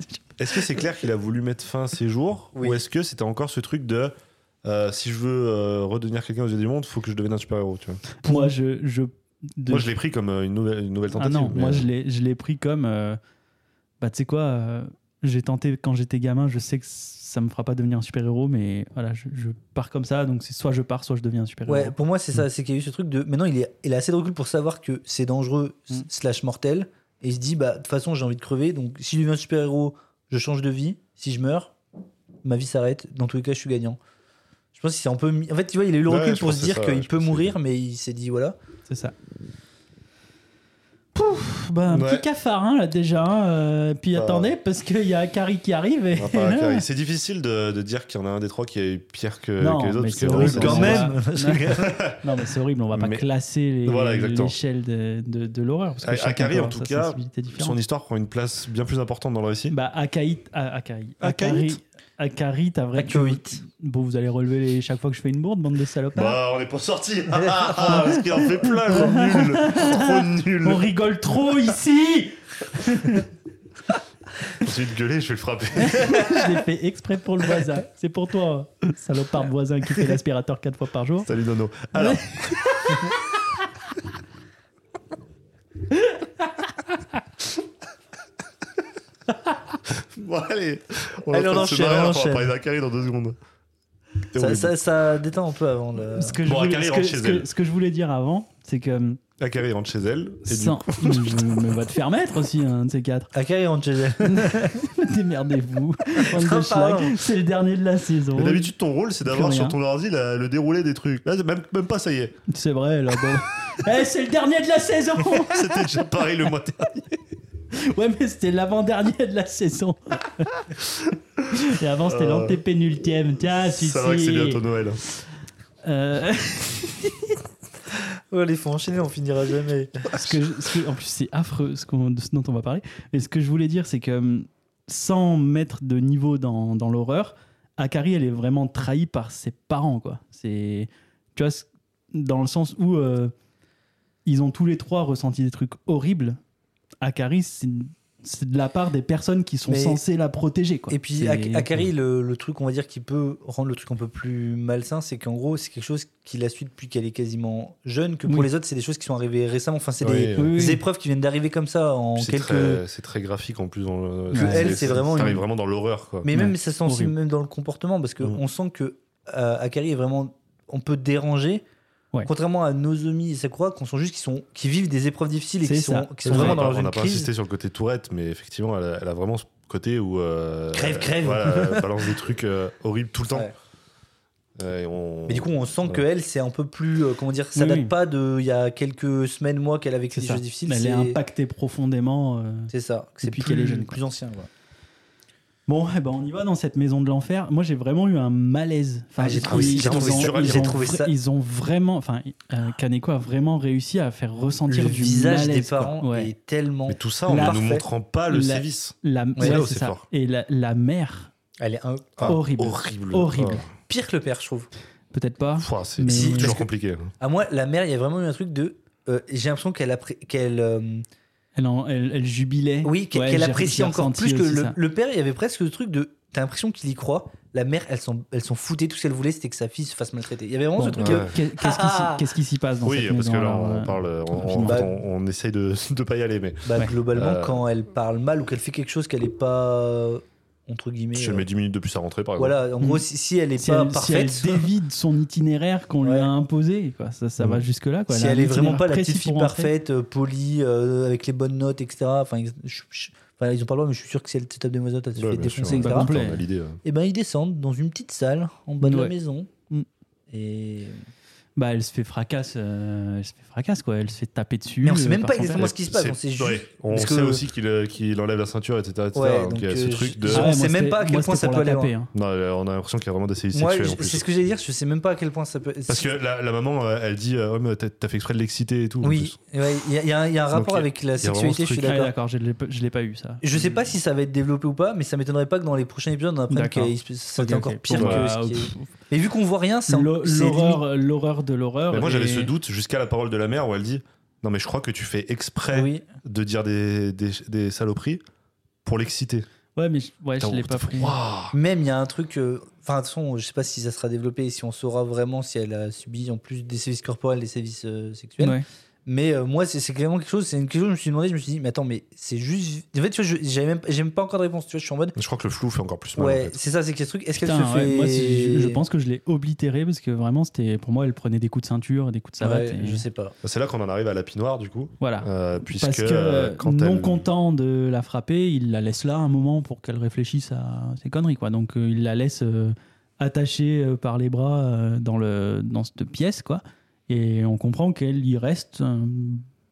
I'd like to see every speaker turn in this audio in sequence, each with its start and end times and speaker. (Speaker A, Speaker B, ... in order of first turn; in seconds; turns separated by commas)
Speaker A: 0.4-8.1, Speaker B: 2.5-2.8, Speaker C: 8.2-9.9, Speaker B: 8.2-8.5, Speaker A: 9.7-11.9, Speaker C: 11.2-13.2, Speaker C: 14.0-21.9, Speaker B: 21.7-31.7, Speaker B: 32.4-34.0, Speaker B: 34.7-38.5, Speaker A: 36.1-37.5, Speaker C: 38.9-39.1, Speaker C: 41.1-46.8, Speaker A: 41.9-42.2, Speaker A: 44.1-44.5, Speaker A: 46.1-51.1, Speaker C: 49.6-57.8, Speaker B: 50.2-52.0, Speaker A: 51.8-52.2, Speaker A: 52.9-53.2, Speaker A: 53.8-54.5, Speaker A: 56.0-59.7, Speaker C: 59.7-66.3, Speaker B: 61.2-61.7, Speaker B: 63.0-63.6, Speaker A: 66.1-70.9, Speaker B: 67.4-68.0, Speaker C: 67.9-68.1, Speaker C: 68.9-73.3, Speaker A: 74.6-76.4, Speaker C: 75.8-81.3, Speaker A: 81.2-82.6, Speaker C: 81.9-83.2, Speaker C: 85.9-86.7, Speaker A: 89.9-93.3, Speaker B: 91.3-92.5, Speaker A: 94.3-94.7, Speaker B: 94.3-96.4, Speaker C: 96.1-99.2, Speaker A: 96.4-97.5, Speaker A: 99.4-101.7, Speaker C: 100.4-103.3, Speaker B: 103.3-104.8, Speaker C: 104.2-108.7, Speaker B: 106.2-107.2, Speaker A: 108.3-112.4, Speaker C: 109.2-109.8, Speaker C: 112.5-116.1, Speaker A: 115.4-117.2, Speaker C: 117.7-120.7, Speaker A: 121.4-122.6, Speaker C: 121.5-124.6, Speaker A: 123.6-125.0, Speaker C: 125.8-127.4, Speaker B: 128.3-130.1, Speaker C: 130.1-143.3, Speaker C: 144.2-146.4, Speaker C: 147.0-151.8, Speaker B: 149.7-150.0, Speaker B: 150.9-162.8, Speaker A: 160.0-160.6, Speaker C: 160.4-160.8, Speaker A: 162.2-166.3, Speaker C: 164.3-164.8, Speaker B: 164.3-165.4, Speaker B: 166.2-171.6, Speaker C: 166.3-167.1, Speaker B: 172.2-177.3, Speaker C: 175.6-176.6, Speaker A: 176.2-183.5, Speaker B: 180.7-182.1, Speaker A: 184.6-186.0, Speaker B: 185.3-191.2, Speaker C: 187.5-187.9, Speaker C: 190.1-194.0, Speaker B: 192.7-194.5, Speaker C: 195.7-206.3, Speaker B: 199.2-201.1, Speaker A: 199.4-200.8, Speaker B: 204.7-207.8, Speaker A: 206.9-210.0, Speaker C: 207.3-207.6, Speaker C: 208.3-211.3, Speaker B: 209.3-209.6, Speaker B: 211.6-212.4, Speaker A: 212.2-213.7, Speaker C: 212.2-213.6, Speaker B: 213.9-214.7, Speaker C: 215.1-216.6, Speaker A: 215.6-217.1, Speaker B: 216.1-216.7, Speaker B: 217.2-221.1, Speaker C: 221.6-224.8, Speaker B: 222.8-232.2, Speaker C: 230.8-234.8, Speaker A: 231.0-231.3, Speaker A: 232.8-237.6, Speaker B: 234.6-234.9, Speaker B: 236.6-241.4, Speaker A: 241.1-242.6, Speaker B: 242.4-244.7, Speaker C: 242.8-243.0, Speaker C: 243.6-249.7, Speaker B: 246.0-246.3, Speaker B: 248.1-256.1, Speaker A: 255.2-256.8, Speaker C: 255.6-256.4, Speaker B: 256.8-259.5, Speaker C: 258.8-259.1, Speaker B: 260.3-261.0, Speaker C: 261.6-265.7, Speaker B: 264.8-267.4, Speaker A: 265.5-270.5, Speaker B: 269.1-271.9, Speaker C: 270.3-272.1, Speaker A: 272.1-274.2, Speaker B: 273.5-276.1, Speaker A: 275.9-279.4, Speaker B: 279.0-282.1, Speaker A: 280.5-281.9, Speaker C: 281.8-283.8, Speaker B: 283.4-290.8, Speaker C: 286.5-288.9, Speaker A: 287.9-288.3, Speaker C: 289.9-292.5, Speaker A: 291.9-298.2, Speaker B: 295.7-296.0, Speaker A: 298.8-299.4, Speaker C: 299.8-301.1, Speaker A: 300.4-301.6, Speaker B: 301.5-315.1, Speaker C: 308.4-308.6, Speaker A: 315.1-316.5, Speaker B: 316.1-318.8, Speaker C: 317.3-323.0, Speaker B: 322.4-323.3, Speaker A: 323.4-327.3, Speaker C: 325.0-339.4